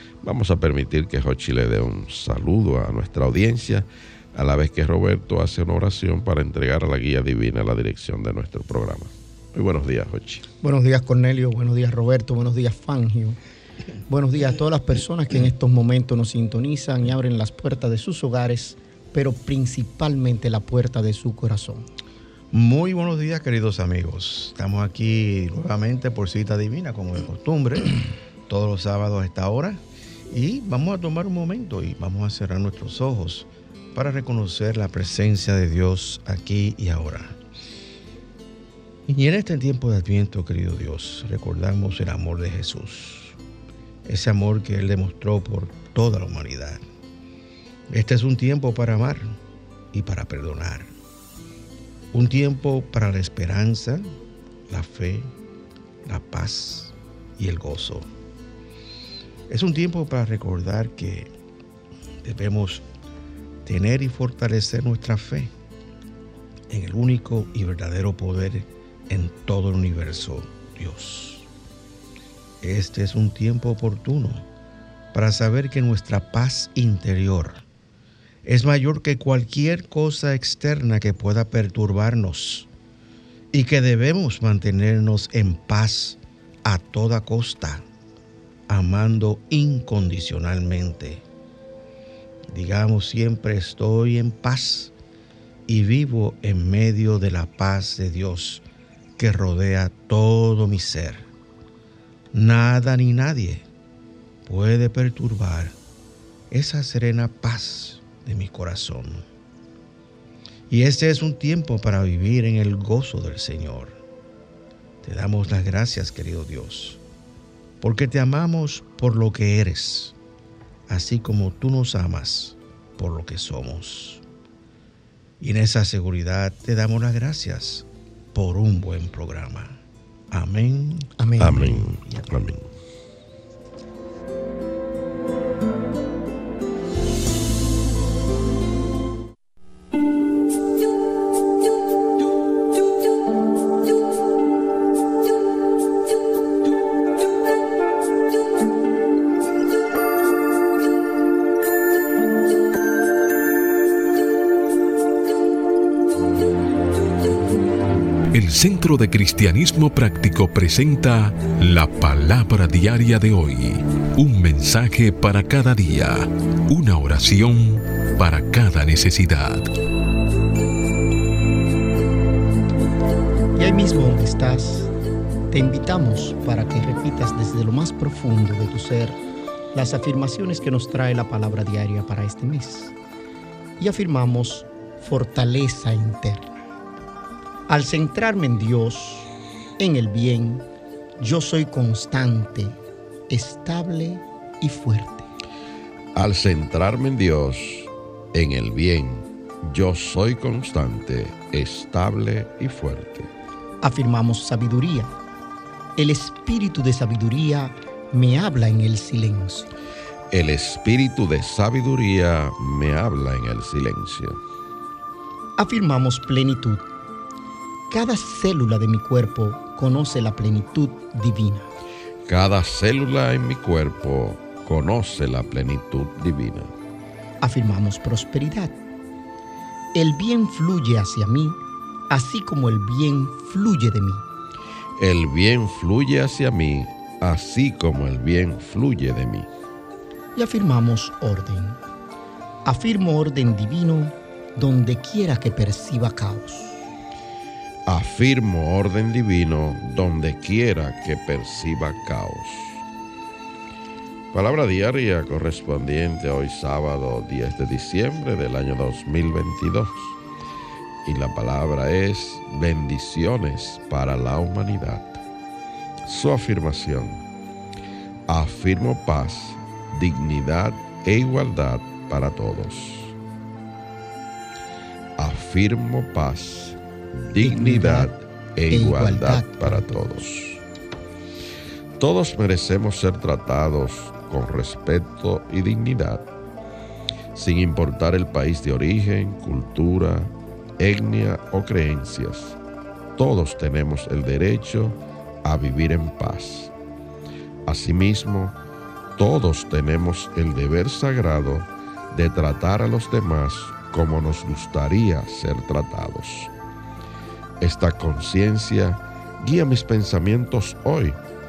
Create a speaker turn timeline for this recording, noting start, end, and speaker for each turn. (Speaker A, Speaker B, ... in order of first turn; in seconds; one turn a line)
Speaker A: 0.2-10.4
Speaker B: 10.6-13.4
Speaker B: 14.1-21.9
Speaker C: 22.5-37.4
Speaker C: 39.1-43.4
Speaker C: 44.0-46.8
Speaker C: 47.9-49.4
Speaker C: 49.9-50.9
Speaker C: 52.1-54.0
Speaker C: 54.7-55.3
Speaker C: 56.0-58.1
Speaker C: 59.5-61.3
Speaker C: 62.2-62.8
Speaker C: 63.6-65.5
Speaker C: 66.7-71.5
Speaker C: 72.6-74.5
Speaker C: 75.1-77.7
Speaker C: 78.4-82.7
Speaker C: 83.5-87.8
Speaker C: 88.7-91.2
Speaker C: 92.5-94.9
Speaker C: 95.7-98.7
Speaker C: 99.2-101.3
Speaker C: 102.3-103.7
Speaker C: 104.5-105.8
Speaker C: 106.5-109.2
Speaker C: 110.7-114.0
Speaker C: 115.0-117.0
Speaker C: 117.8-120.2
Speaker C: 120.9-124.2
Speaker C: 125.4-131.9
Speaker B: 131.2-131.8
Speaker A: 131.4-132.7
Speaker D: 158.3-169.7
Speaker B: 173.6-174.9
Speaker B: 175.5-179.2
Speaker B: 179.7-182.9
Speaker B: 183.8-186.5
Speaker B: 187.7-190.7
Speaker B: 191.2-192.8
Speaker B: 193.3-195.3
Speaker A: 196.2-203.3
Speaker B: 203.8-205.1
Speaker B: 206.0-209.7
Speaker A: 210.3-214.4
Speaker B: 215.6-216.8
Speaker B: 217.9-221.7
Speaker A: 222.3-226.7
Speaker B: 227.4-228.8
Speaker B: 229.9-234.3
Speaker A: 235.0-239.5
Speaker B: 240.3-241.8
Speaker B: 242.7-246.8
Speaker A: 247.9-252.8
Speaker A: 254.3-260.2
Speaker A: 261.0-265.2
Speaker A: 266.1-267.2
Speaker A: 268.3-273.1
Speaker A: 275.2-280.6
Speaker B: 277.4-278.1
Speaker B: 278.7-280.1
Speaker A: 282.0-286.2
Speaker A: 287.4-292.6
Speaker A: 293.2-296.7
Speaker A: 297.7-298.6
Speaker A: 299.2-306.5
Speaker A: 307.6-311.2